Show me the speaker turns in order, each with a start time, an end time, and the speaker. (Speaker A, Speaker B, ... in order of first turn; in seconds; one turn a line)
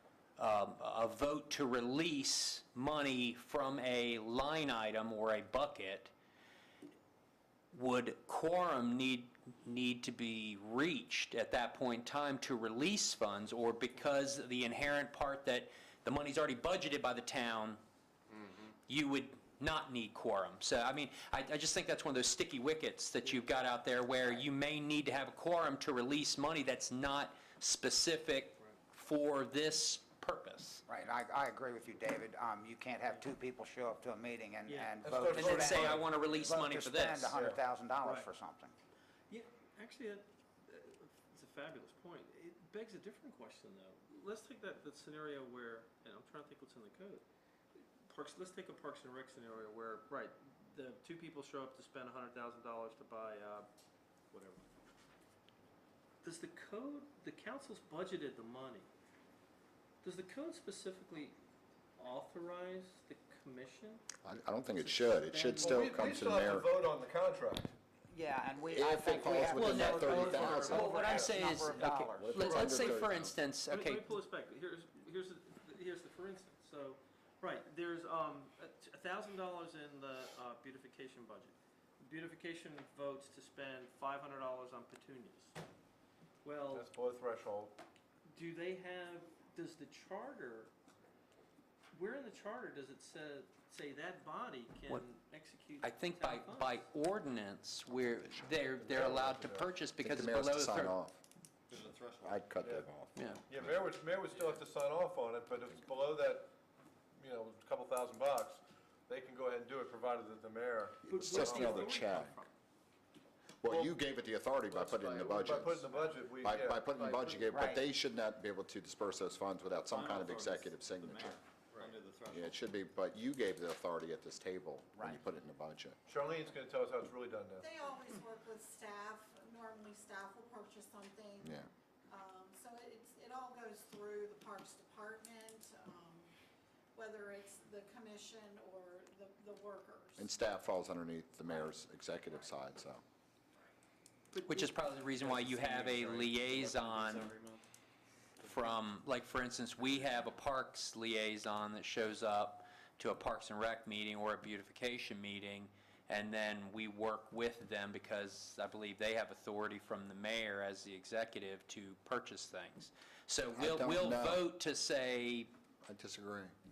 Speaker A: 0.4-6.1
Speaker A: 7.7-17.8
Speaker A: 18.9-30.8
Speaker B: 30.9-38.7
Speaker C: 34.6-34.9
Speaker D: 35.0-36.2
Speaker A: 35.3-37.3
Speaker D: 37.3-37.6
Speaker C: 38.0-38.3
Speaker C: 39.3-47.2
Speaker C: 48.0-53.7
Speaker C: 54.3-54.7
Speaker C: 56.2-58.9
Speaker C: 60.0-61.4
Speaker C: 62.0-64.0
Speaker E: 64.2-66.7
Speaker C: 64.7-66.1
Speaker D: 65.6-67.7
Speaker B: 68.1-72.8
Speaker E: 68.7-70.9
Speaker A: 69.5-74.1
Speaker D: 70.9-71.4
Speaker E: 72.0-73.3
Speaker C: 73.7-85.6
Speaker C: 86.4-86.9
Speaker D: 86.7-87.7
Speaker C: 88.3-90.7
Speaker C: 91.9-96.9
Speaker A: 95.8-101.0
Speaker D: 98.8-99.7
Speaker E: 100.0-103.9
Speaker F: 101.7-102.5
Speaker D: 102.6-102.9
Speaker A: 103.1-103.4
Speaker D: 103.5-106.5
Speaker D: 107.2-111.9
Speaker E: 111.0-112.4
Speaker C: 111.1-112.5
Speaker E: 113.6-121.4
Speaker D: 113.7-114.0
Speaker D: 114.7-117.1
Speaker B: 117.5-117.8
Speaker F: 119.9-122.6
Speaker E: 122.3-126.0
Speaker B: 125.0-125.2
Speaker D: 126.1-127.7
Speaker G: 127.6-136.3
Speaker E: 131.4-131.7
Speaker G: 136.9-140.5
Speaker E: 140.2-143.0
Speaker C: 144.3-146.0
Speaker A: 144.5-147.3
Speaker F: 145.8-147.6
Speaker A: 148.4-165.5
Speaker E: 163.5-164.4
Speaker E: 165.8-166.5